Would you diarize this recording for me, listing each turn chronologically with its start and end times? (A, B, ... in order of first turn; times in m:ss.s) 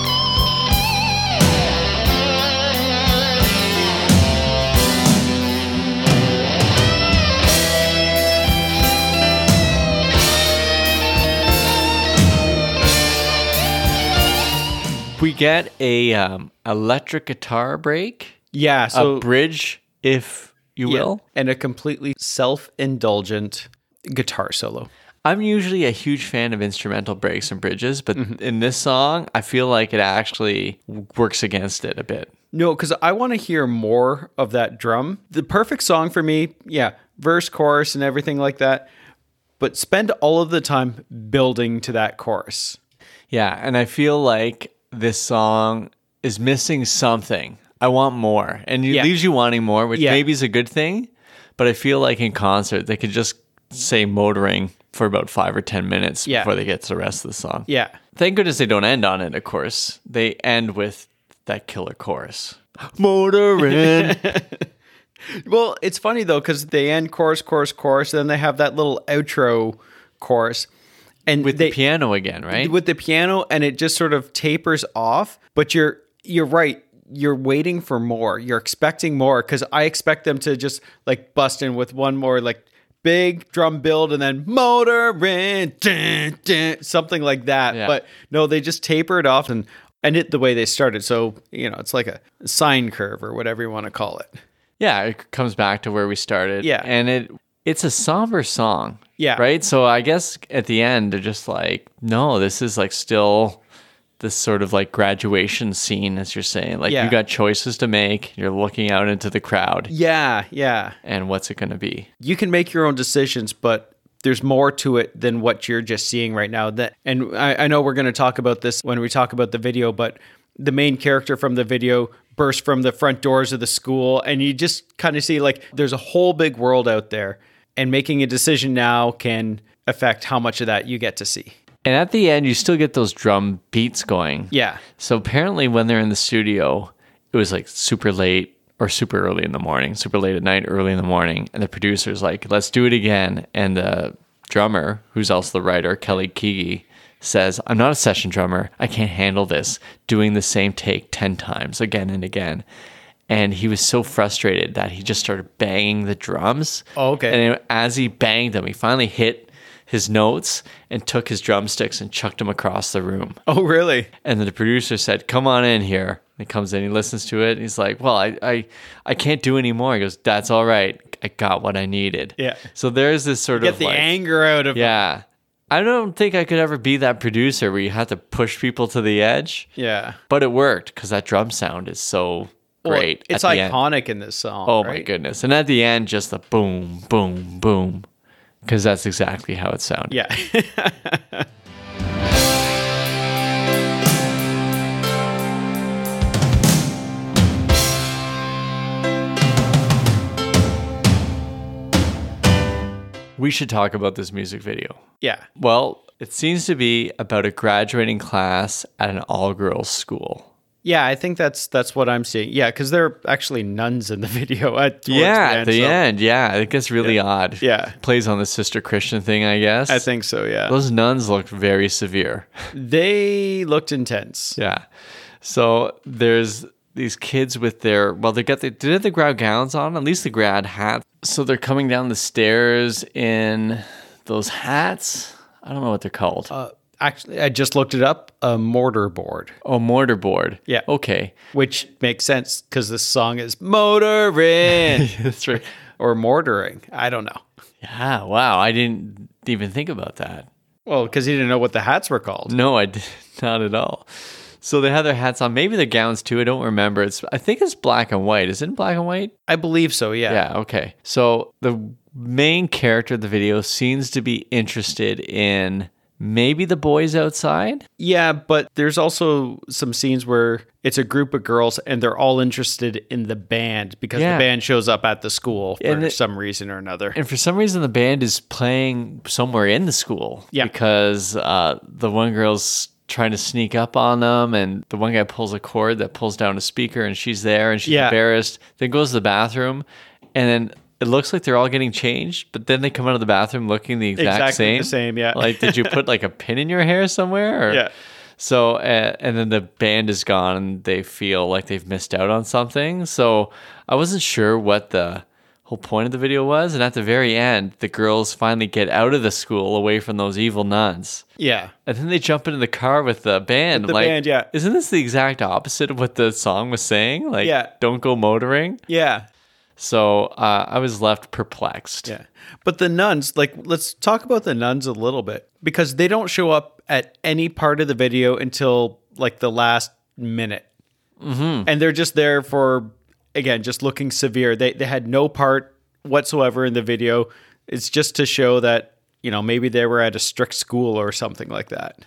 0:15.1-0:18.4 A
0:18.5-0:19.3 B
0:18.9-0:21.2 A
0:20.8-0:24.9 B
0:25.2-0:32.3 A
0:32.5-0:38.9 B
0:39.6-0:42.8 B
0:43.3-1:04.4 A
0:49.9-0:50.2 B
0:57.7-0:58.0 B
1:03.6-1:04.6 B
1:05.3-1:10.7 B
1:11.3-1:11.8 B
1:11.4-1:12.7 A
1:12.5-1:34.3 B
1:27.7-1:28.0 A
1:34.8-1:43.6 A
1:36.6-1:36.9 B
1:39.2-1:39.4 B
1:44.2-1:49.9 A
1:46.9-1:47.2 B
1:49.9-1:51.0 B
1:51.0-1:52.1 A
1:52.2-2:11.6 B
2:11.8-2:32.6 A
2:14.5-2:14.8 B
2:33.3-2:43.4 A
2:37.0-2:37.4 B
2:43.5-2:44.1 B
2:44.2-2:54.1 A
2:52.4-2:52.6 B
2:53.6-2:55.0 B
2:54.7-2:59.7 A
2:59.8-3:00.2 B
3:00.3-3:03.8 A
3:02.8-3:05.1 B
3:04.6-3:08.1 A
3:08.6-3:10.2 A
3:10.1-3:11.5 B
3:23.4-3:25.0 A
3:25.2-3:25.4 B
3:25.6-3:30.5 A
3:30.8-3:36.0 B
3:35.1-3:40.1 A
3:37.0-3:37.9 B
3:39.9-3:40.7 B
3:40.7-3:42.5 A
3:42.7-3:44.6 B
3:44.6-3:44.8 A
3:45.4-3:56.5 A
3:56.5-3:59.5 B
3:59.6-4:01.4 A
4:01.5-4:05.1 B
4:04.9-4:05.7 A
4:06.0-4:07.4 B
4:07.8-4:10.5 A
4:10.8-4:12.5 B
4:12.5-4:14.1 A
4:14.6-4:19.3 A
4:19.5-4:20.4 B
4:20.3-4:27.8 A
4:28.0-4:37.2 B
4:34.1-4:34.4 A
4:35.8-4:36.2 A
4:37.1-4:57.8 A
4:47.8-4:48.2 B
4:54.2-4:56.0 B
4:58.4-5:11.2 A
5:11.4-5:11.7 B
5:11.8-5:18.8 A
5:13.7-5:14.5 B
5:17.4-5:17.7 B
5:18.9-5:19.3 B
5:19.8-5:22.1 A
5:22.1-5:30.7 B
5:31.2-5:31.7 A
5:31.7-5:42.0 B